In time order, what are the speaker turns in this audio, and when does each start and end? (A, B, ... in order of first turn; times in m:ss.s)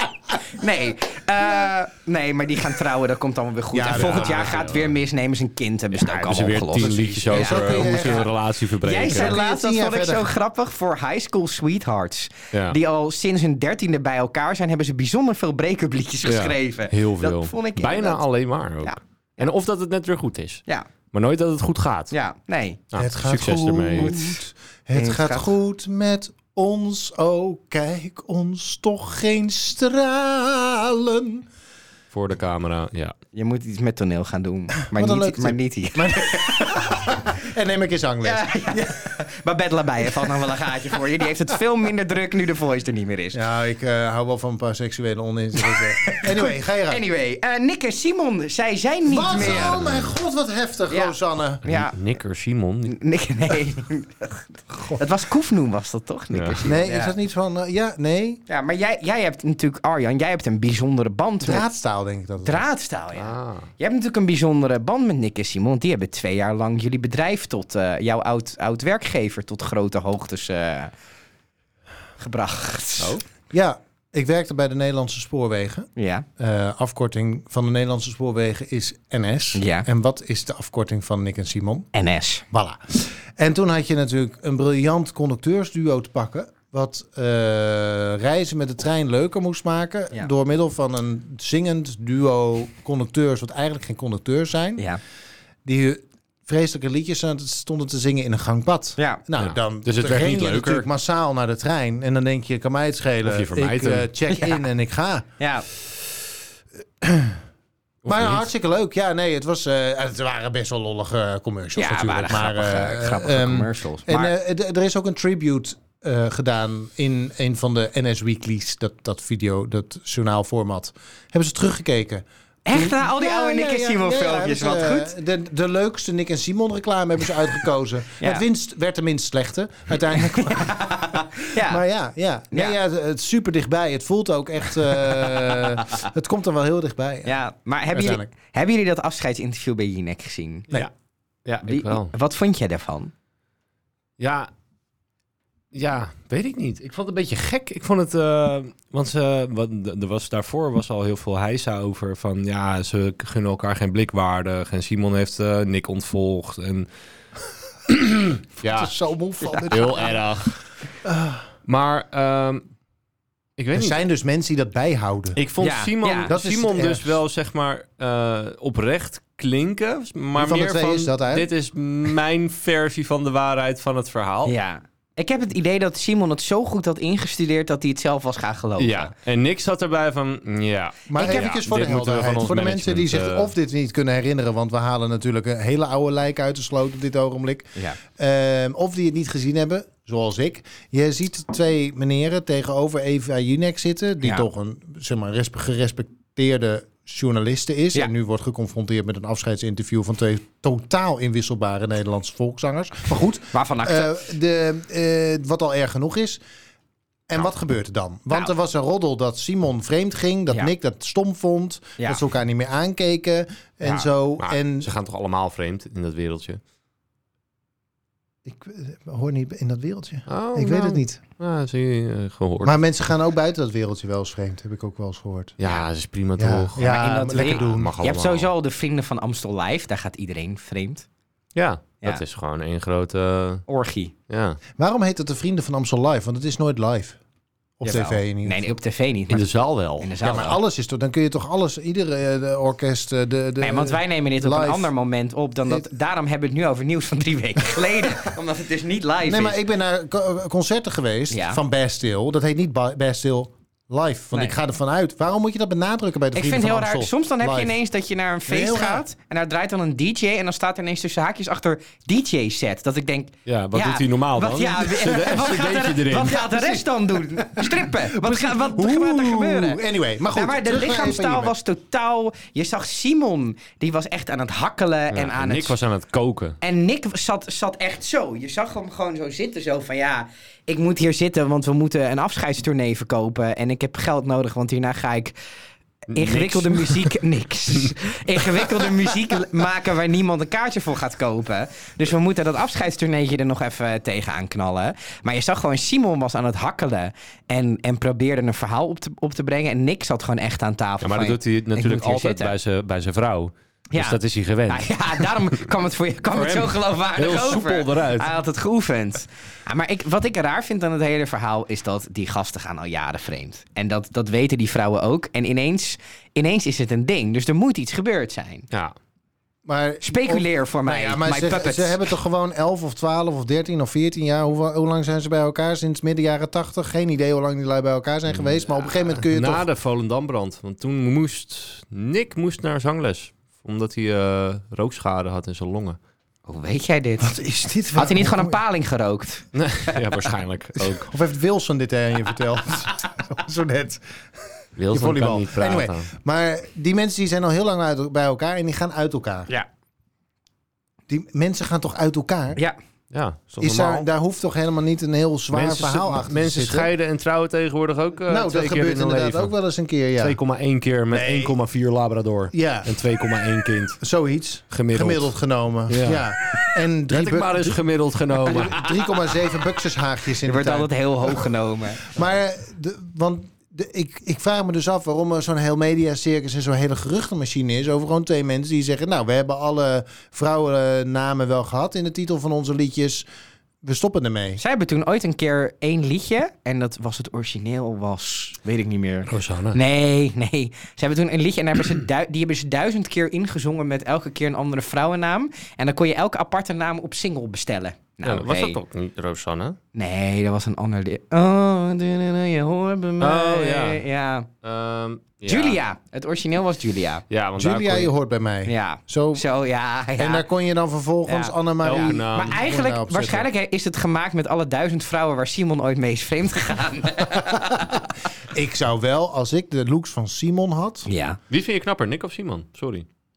0:00.5-0:08.2 A
0:03.7-0:04.5 B
0:03.9-0:04.9 C
0:06.0-0:09.4 C
0:06.8-0:08.3 B
0:08.8-0:18.2 A
0:09.0-0:10.3 B
0:12.5-0:12.8 C
0:16.2-0:22.1 C
0:22.1-0:22.8 A
0:22.9-0:24.1 C
0:23.0-0:31.4 B
0:24.0-0:24.3 A
0:24.9-0:25.5 A
0:32.1-0:33.1 C
0:33.3-0:37.0 A
0:34.9-0:39.1 B
0:38.2-0:43.4 A
0:43.3-0:47.0 B
0:45.7-0:49.8 A
0:49.0-0:51.6 B
0:50.9-0:52.0 A
0:51.6-0:53.0 C
0:52.9-0:57.1 A
0:56.3-0:56.6 C
0:56.6-0:58.4 B
0:58.5-1:01.6 A
1:01.4-1:02.6 B
1:02.4-1:10.9 A
1:03.1-1:03.7 C
1:12.2-1:13.2 A
1:13.5-1:15.9 B
1:16.0-1:16.2 A
1:16.4-1:21.9 B
1:19.5-1:19.9 A
1:21.9-1:22.4 A
1:22.5-1:34.9 B
1:35.6-1:45.3 B
1:39.4-1:40.9 C
1:43.2-1:44.1 C
1:45.4-1:45.6 A
1:47.0-1:47.4 B
1:48.0-1:48.4 C
1:48.1-2:17.4 B
1:51.8-1:54.3 A
2:02.6-2:05.1 A
2:10.1-2:11.8 A
2:17.2-2:20.7 A
2:17.9-2:18.3 B
2:21.4-2:22.1 C
2:21.7-2:23.1 A
2:24.2-2:24.5 C
2:25.7-2:36.9 C
2:37.9-2:38.9 C
2:38.6-2:40.1 B
2:39.4-2:40.1 A
2:39.7-2:40.6 C
2:41.0-2:41.4 B
2:41.6-2:42.6 C
2:43.6-2:44.0 C
2:43.7-2:45.4 B
2:45.3-2:54.5 C
2:45.6-2:46.3 A
2:46.3-2:47.2 B
2:50.4-2:51.5 B
2:54.4-2:59.1 A
2:58.8-3:03.5 C
3:01.1-3:26.4 B
3:01.2-3:01.5 A
3:23.5-3:24.2 A
3:27.3-3:34.9 B
3:34.4-3:36.6 C
3:38.4-3:41.2 B
3:40.3-3:42.7 C
3:42.6-3:45.6 B
3:45.6-3:48.5 C
3:46.4-3:48.0 B
3:46.8-3:51.0 A
3:51.5-3:53.6 C
3:53.7-3:54.1 A
3:54.3-3:54.6 C
3:54.8-3:57.2 B
3:57.8-3:58.6 B
3:57.8-4:00.6 A
3:59.3-4:00.1 C
4:00.2-4:04.9 B
4:03.6-4:09.6 A
4:09.2-4:17.8 B
4:11.3-4:11.6 A
4:16.3-4:29.8 A
4:18.5-4:19.1 B
4:23.4-4:26.4 C
4:26.5-4:26.8 B
4:27.6-4:31.5 B
4:30.3-4:35.8 A
4:35.1-4:36.6 C
4:36.6-4:45.3 A
4:46.1-4:47.1 C
4:46.1-5:02.5 A
5:01.0-5:05.3 C
5:03.9-5:18.7 A
5:06.3-5:08.3 C
5:18.7-5:19.0 C
5:19.6-5:29.7 B
5:20.0-5:22.1 A
5:29.2-5:36.0 C
5:36.5-5:37.3 A
5:37.2-5:38.6 B
5:37.9-5:40.0 A
5:39.5-5:41.1 C
5:40.8-5:44.0 B
5:44.8-5:46.1 C
5:44.9-5:49.5 B
5:51.1-5:52.6 B
5:53.1-5:54.1 C
5:53.6-5:56.9 B
5:55.5-5:59.5 C
5:58.3-6:00.4 B
6:00.2-6:04.0 C
6:01.1-6:01.6 B
6:02.5-6:03.0 B
6:04.0-6:07.8 B
6:04.7-6:06.2 C
6:07.1-6:08.9 C
6:08.4-6:11.5 B
6:10.4-6:12.1 A
6:12.0-6:23.2 B
6:23.8-6:24.6 B
6:24.6-6:38.8 A
6:29.3-6:29.8 C
6:38.2-6:39.8 C
6:39.9-6:44.5 A
6:43.2-6:44.0 C
6:44.6-6:45.8 C
6:45.4-6:47.2 A
6:47.3-6:48.1 C
6:47.6-6:49.4 B
6:48.6-6:50.4 A
6:50.2-6:53.4 B
6:51.2-6:58.1 A
6:51.8-6:52.6 C
6:58.5-7:01.1 B
7:01.1-7:01.4 A
7:01.5-7:03.0 C